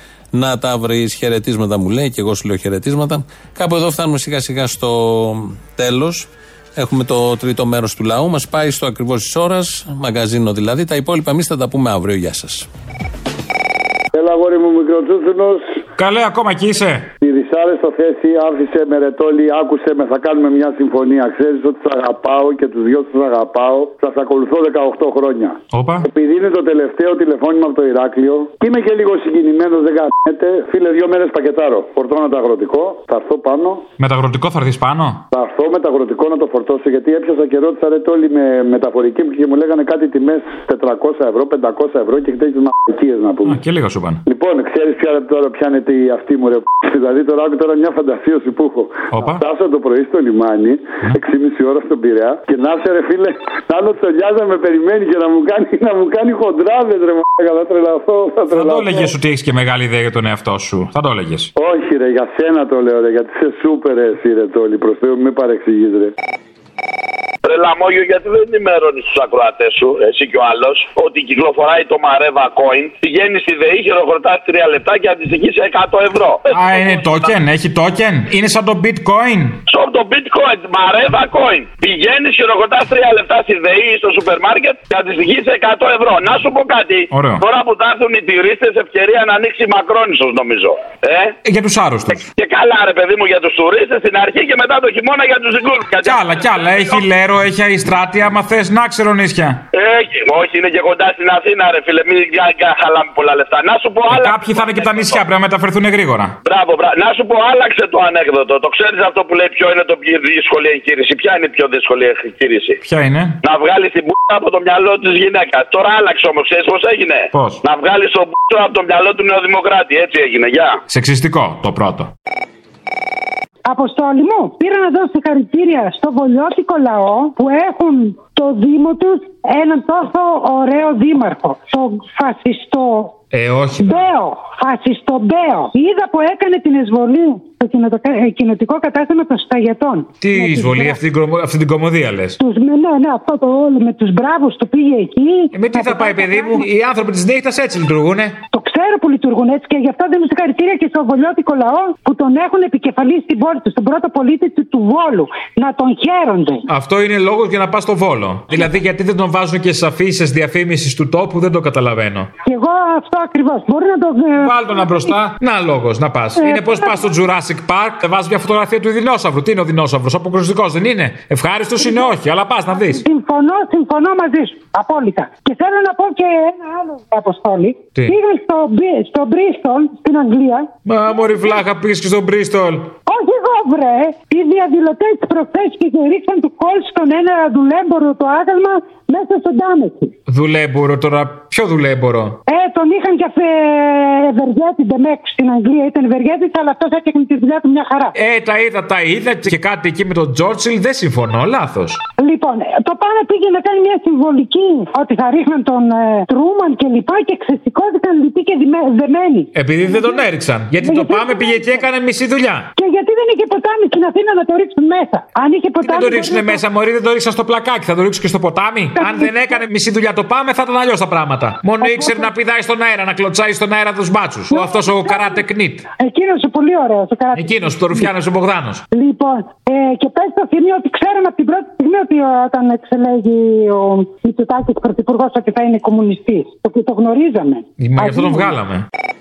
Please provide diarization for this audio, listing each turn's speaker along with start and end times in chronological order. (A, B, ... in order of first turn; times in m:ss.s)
0:00.3-0:12.7 A
0:14.1-0:15.8 B
0:16.0-0:17.1 C
0:17.2-0:33.9 B
0:25.7-0:26.1 C
0:34.0-0:35.2 C
0:35.3-0:43.6 B
0:43.4-0:44.2 C
0:44.2-0:59.1 B
0:49.1-0:49.4 C
0:58.5-1:01.5 C
1:01.6-1:06.1 B
1:07.4-1:17.1 D
1:16.5-1:19.6 C
1:19.7-1:31.3 D
1:27.1-1:27.4 C
1:31.4-1:32.3 C
1:32.4-1:37.0 D
1:36.0-1:39.6 C
1:39.7-1:45.2 D
1:44.1-1:46.4 C
1:46.4-1:52.8 D
1:52.8-1:53.4 C
1:53.4-2:00.8 D
1:57.3-1:57.6 C
2:00.9-2:02.1 C
2:03.7-2:13.2 E
2:13.3-2:14.1 C
2:13.8-2:21.0 E
2:20.2-2:22.4 C
2:22.4-2:26.7 E
2:25.5-2:28.4 C
2:28.5-2:36.6 E
2:36.7-2:42.3 C
2:42.5-2:45.2 E
2:44.4-2:53.0 C
2:46.4-2:47.1 E
2:51.8-2:52.1 E
2:52.7-3:01.5 E
3:00.9-3:02.9 C
3:03.1-3:10.1 E
3:10.3-3:12.4 C
3:12.5-3:18.1 E
3:18.2-3:22.0 C
3:22.2-3:30.2 E
3:29.5-3:32.7 C
3:30.8-3:31.9 E
3:32.8-3:36.6 E
3:35.8-3:45.9 C
3:39.0-3:39.6 E
3:41.8-3:42.3 E
3:44.5-3:45.4 E
3:46.0-3:48.1 E
3:47.4-3:48.8 C
3:48.9-3:58.6 E
3:57.8-3:58.8 C